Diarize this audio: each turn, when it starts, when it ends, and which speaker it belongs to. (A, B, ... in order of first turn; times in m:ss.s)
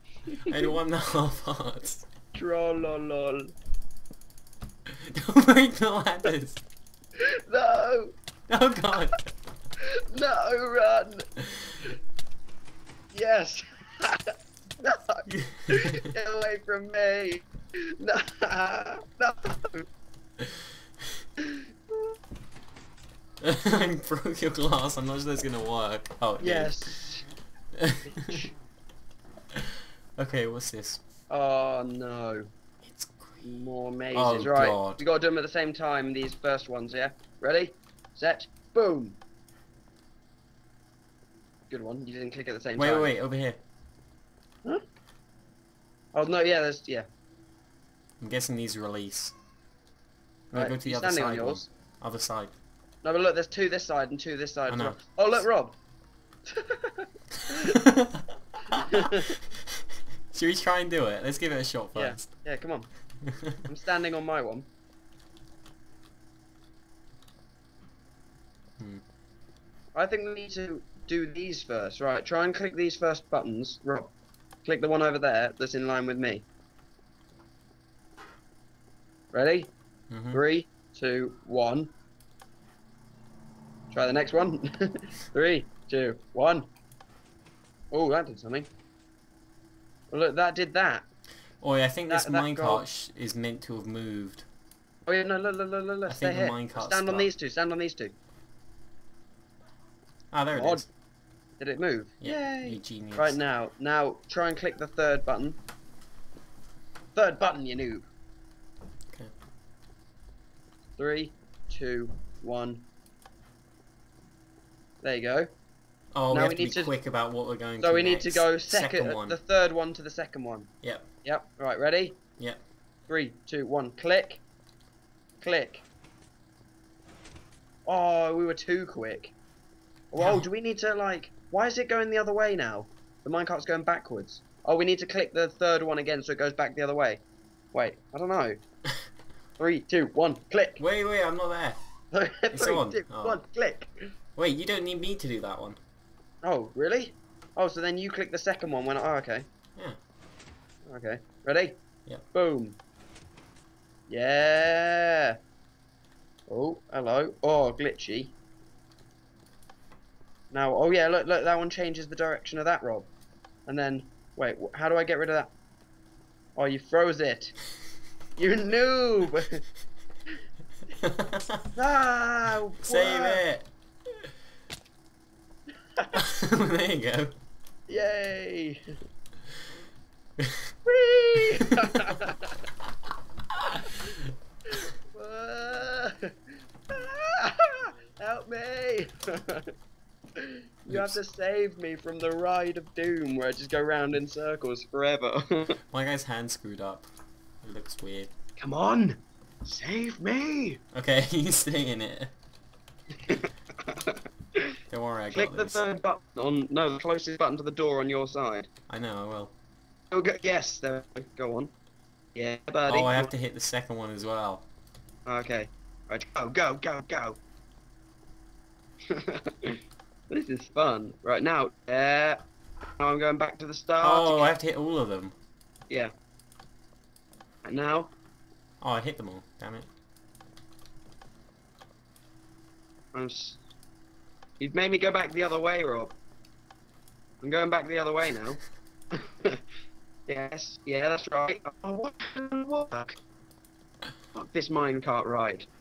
0:00.3-0:00.7 A
0:00.5-0:02.1 B
0:02.4-0:03.5 A
0:04.9-0:06.6 B
0:07.2-0:08.2 A
0:08.5-0:09.3 B
0:10.1-0:11.3 A
0:13.1-0:17.4 A
0:15.3-0:16.1 B
0:18.0-0:19.9 A
0:23.4-0:26.9 B
0:26.4-0:27.3 A
0:27.8-0:28.4 B
0:28.0-0:28.5 A
0:30.2-0:31.0 B
0:31.3-0:32.5 A
0:32.8-0:33.5 B
0:33.4-0:39.2 A
0:34.1-0:35.0 B
0:41.7-0:43.1 A
0:42.8-0:43.6 B
0:46.1-0:47.1 A
0:48.2-0:49.4 B
0:50.5-0:52.5 B
0:50.5-0:51.7 A
0:53.0-0:55.8 A
0:54.7-0:55.2 B
0:56.5-0:57.8 A
0:57.7-0:59.8 B
0:58.9-0:59.3 A
1:00.3-1:02.3 B
1:02.0-1:02.9 A
1:03.3-1:03.6 B
1:03.7-1:04.7 A
1:10.0-1:14.1 A
1:14.6-1:16.5 A
1:19.3-1:19.7 A
1:20.1-1:20.4 B
1:20.3-1:21.9 A
1:23.9-1:26.7 A
1:27.9-1:28.7 A
1:30.1-1:31.0 A
1:31.6-1:34.5 B
1:32.1-1:32.8 A
1:35.1-1:38.2 A
1:36.1-1:37.3 B
1:40.3-1:40.9 B
1:40.5-1:40.9 A
1:41.6-1:45.6 A
1:42.2-1:43.4 B
1:47.2-1:48.1 A
1:51.0-1:52.9 A
1:55.0-1:55.5 A
1:56.1-1:59.4 B
1:56.3-1:56.9 A
1:57.8-2:00.7 A
2:01.2-2:02.2 A
2:03.1-2:04.4 A
2:05.4-2:05.8 A
2:07.9-2:09.4 A
2:10.1-2:17.2 A
2:10.2-2:10.5 B
2:17.7-2:18.6 A
2:19.6-2:20.8 A
2:20.8-2:21.8 B
2:22.1-2:23.9 A
2:22.5-2:23.4 B
2:24.4-2:25.8 B
2:26.4-2:29.5 A
2:30.9-2:31.8 A
2:32.3-2:32.8 A
2:34.1-2:35.4 A
2:36.5-2:38.4 A
2:40.5-2:43.1 A
2:43.7-2:45.5 A
2:46.6-2:47.6 A
2:48.4-2:49.6 A
2:51.0-2:51.6 B
2:51.8-2:53.4 A
2:52.8-2:53.7 B
2:56.2-2:57.3 B
2:57.9-2:58.8 A
3:00.4-3:00.7 B
3:00.9-3:02.6 A
3:01.6-3:02.1 B
3:03.6-3:03.8 B
3:04.7-3:06.3 A
3:06.9-3:09.7 A
3:10.4-3:15.8 A
3:10.9-3:11.2 B
3:15.9-3:17.1 B
3:17.6-3:18.3 B
3:18.6-3:20.8 A
3:20.9-3:22.3 B
3:23.2-3:24.6 A
3:24.9-3:25.8 B
3:25.3-3:28.7 A
3:28.9-3:29.5 B
3:30.1-3:31.7 A
3:32.4-3:33.3 A
3:32.9-3:34.7 B
3:35.3-3:37.4 A
3:39.1-3:39.8 A
3:40.3-3:42.4 A
3:43.0-3:44.5 A
3:44.0-3:45.3 B
3:47.6-3:48.1 A
3:48.8-3:49.9 B
3:53.1-3:53.6 A
3:54.6-3:56.2 A
3:57.4-3:58.6 A
3:59.1-3:59.6 A
4:00.3-4:03.2 A
4:04.3-4:05.7 A